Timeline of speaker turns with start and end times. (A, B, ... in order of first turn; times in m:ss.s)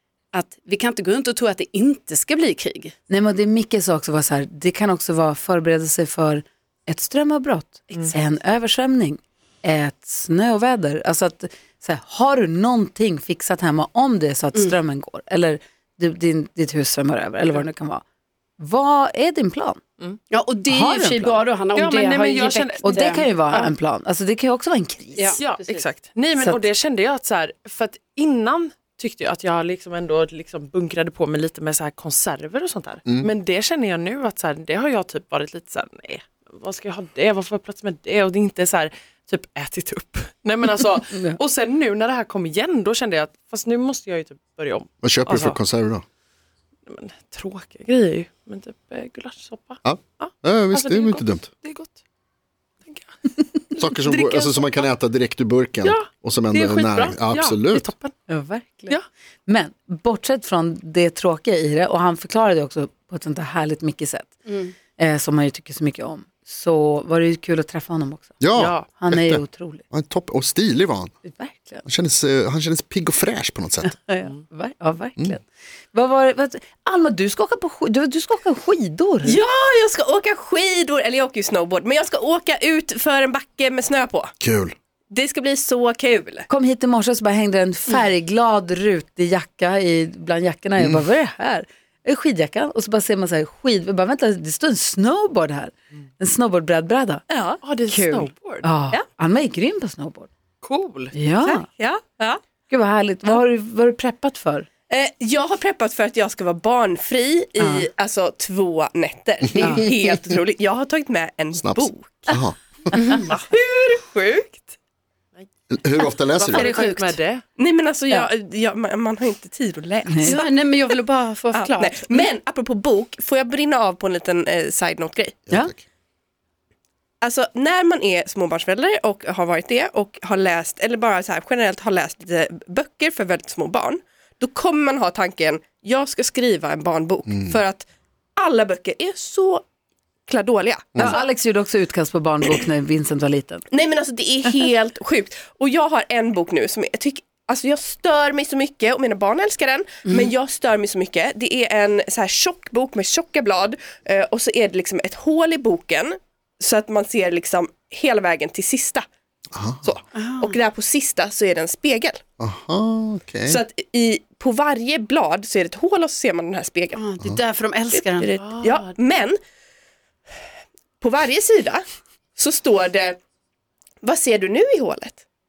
0:00.3-0:02.9 A
0:03.1-0:18.0 B
0:18.6-0:19.8 B
0:20.3-0:23.7 A
0:20.7-0:21.4 B
0:21.7-0:22.9 C
0:22.8-0:25.3 B
0:25.2-0:25.8 A
0:25.4-0:45.6 C
0:41.1-0:41.4 B
0:45.0-0:46.0 D
0:46.9-0:52.0 C
0:49.8-0:51.5 D
0:53.7-0:57.9 D
0:54.1-0:54.7 C
0:55.8-0:58.1 C
0:58.3-1:08.4 B
1:08.4-1:11.1 D
1:08.6-1:08.9 C
1:08.9-1:09.8 B
1:11.2-1:11.8 B
1:11.8-1:14.0 D
1:13.8-1:19.4 B
1:19.2-1:24.3 E
1:24.4-1:24.8 D
1:25.1-1:26.5 E
1:26.5-1:37.2 B
1:30.8-1:31.0 D
1:37.6-1:38.7 C
1:37.9-1:40.3 B
1:40.6-1:41.1 C
1:41.1-1:41.6 B
1:41.7-1:42.4 E
1:42.7-1:44.7 B
1:44.9-1:52.4 E
1:47.6-1:47.9 B
1:49.6-1:50.1 B
1:51.6-1:52.9 D
1:53.0-1:53.3 A
1:53.1-1:54.7 C
1:55.7-1:56.7 D
1:56.4-1:57.4 C
1:56.5-1:57.2 A
1:57.6-2:00.5 E
2:00.1-2:00.4 B
2:00.2-2:02.3 A
2:01.5-2:05.4 E
2:05.5-2:05.8 D
2:07.2-2:17.8 E
2:18.4-2:19.6 E
2:20.3-2:21.2 E
2:21.0-2:23.6 B
2:23.7-2:39.0 E
2:30.1-2:30.3 A
2:39.5-2:39.9 D
2:39.8-2:42.2 E
2:40.1-2:40.6 A
2:42.4-2:43.6 D
2:43.5-2:47.0 E
2:46.9-2:48.3 A
2:47.9-2:49.4 E
2:48.4-2:48.9 C
2:51.0-2:51.8 E
2:52.4-2:53.2 E
2:54.0-2:55.2 E